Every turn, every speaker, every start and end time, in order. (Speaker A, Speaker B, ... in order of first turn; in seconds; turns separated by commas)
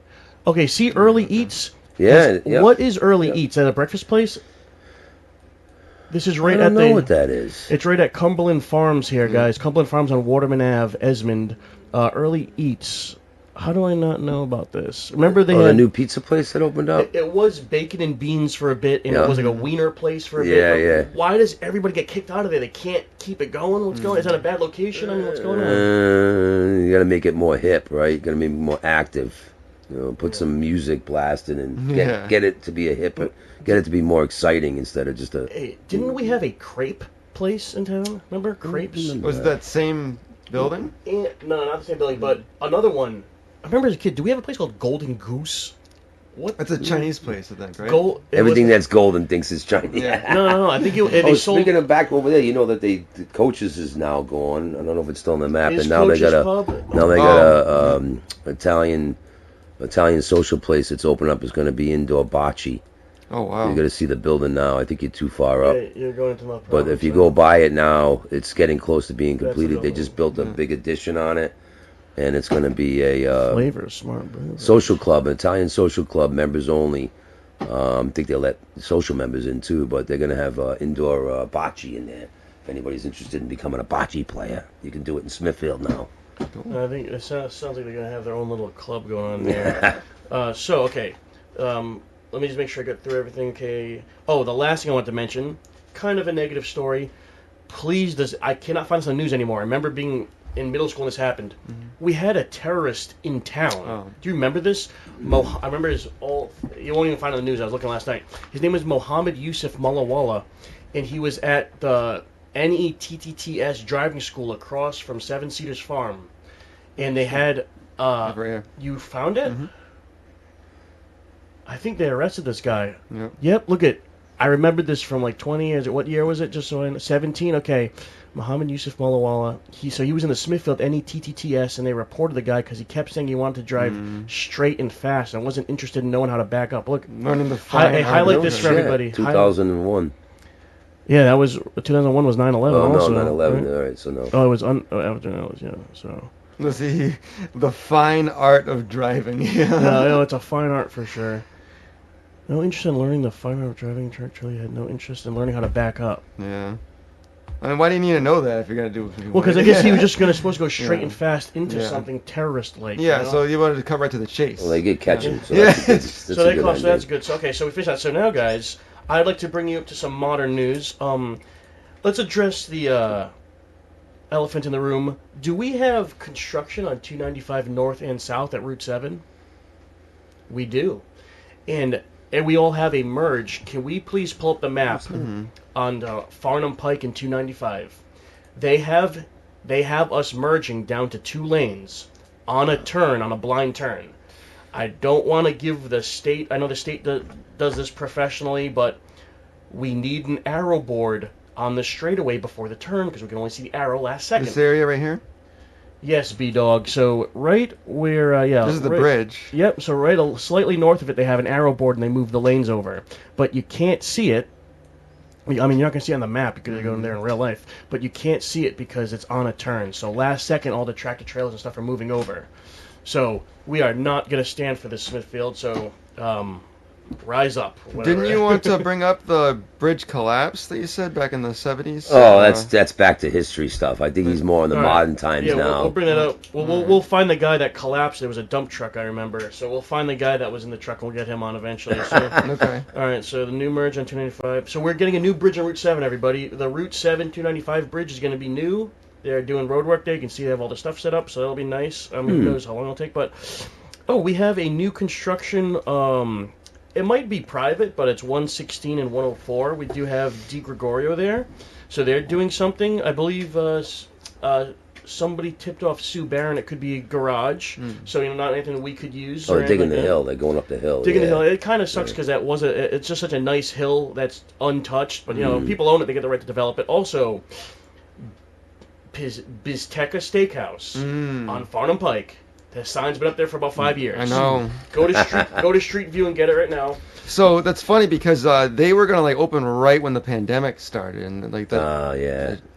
Speaker A: 0.5-4.4, Speaker B: 2.0-3.4, Speaker A: 6.1-7.1, Speaker B: 6.5-7.7, Speaker A: 7.7-15.8, Speaker B: 15.4-17.1, Speaker A: 16.9-25.9, Speaker B: 19.1-19.4, Speaker C: 19.3-19.6, Speaker B: 20.4-21.1, Speaker C: 23.9-24.4, Speaker B: 25.0-36.3, Speaker C: 31.8-32.4, Speaker A: 35.5-39.2, Speaker B: 38.6-39.5, Speaker C: 39.2-40.9, Speaker A: 41.0-45.7, Speaker A: 46.4-47.1, Speaker C: 46.6-48.1, Speaker A: 47.8-48.8, Speaker B: 48.3-59.2, Speaker C: 49.9-50.3, Speaker A: 50.3-51.8, Speaker A: 55.7-57.2, Speaker C: 57.0-58.0, Speaker B: 59.8-62.8, Speaker C: 63.3-63.8, Speaker B: 63.6-65.8, Speaker A: 65.6-67.3, Speaker B: 66.7-71.5, Speaker A: 69.4-70.2, Speaker C: 70.3-70.6, Speaker B: 72.2-73.7, Speaker A: 73.4-75.0, Speaker B: 74.6-86.1, Speaker C: 86.5-86.8, Speaker A: 86.7-97.1, Speaker B: 89.4-90.0, Speaker A: 97.7-116.3, Speaker C: 103.8-104.2, Speaker A: 117.0-119.6, Speaker C: 118.2-118.7, Speaker A: 121.7-137.1, Speaker C: 123.1-123.4, Speaker C: 133.8-134.3, Speaker C: 137.1-138.9, Speaker A: 137.7-139.5, Speaker B: 138.0-140.1, Speaker A: 141.1-143.7, Speaker B: 142.7-144.3, Speaker A: 144.3-146.3, Speaker C: 146.6-150.2, Speaker A: 149.8-151.5, Speaker A: 152.5-156.2, Speaker C: 156.4-156.8, Speaker C: 157.6-162.1, Speaker A: 159.3-163.4, Speaker C: 163.0-166.2, Speaker B: 164.6-167.1, Speaker A: 165.2-165.5, Speaker A: 166.3-171.4, Speaker A: 172.0-173.3, Speaker A: 174.3-179.2, Speaker A: 180.5-181.1, Speaker A: 181.7-188.0, Speaker C: 185.0-185.5, Speaker A: 188.6-194.1, Speaker A: 194.7-199.0, Speaker A: 199.7-204.6, Speaker C: 204.4-205.2, Speaker A: 206.0-214.5, Speaker C: 208.6-209.6, Speaker A: 215.5-222.5, Speaker C: 216.7-217.1, Speaker A: 223.1-226.6, Speaker A: 227.2-228.8, Speaker C: 228.0-232.7, Speaker B: 232.1-236.0, Speaker A: 234.7-270.2, Speaker C: 236.1-237.0, Speaker C: 242.4-242.9, Speaker B: 252.3-252.6, Speaker C: 267.8-268.1, Speaker B: 269.5-272.1, Speaker A: 271.0-277.4, Speaker B: 275.3-275.8, Speaker A: 279.1-287.0, Speaker C: 280.9-281.7, Speaker C: 284.1-284.8, Speaker B: 284.4-284.6, Speaker C: 287.2-292.6, Speaker B: 291.7-292.6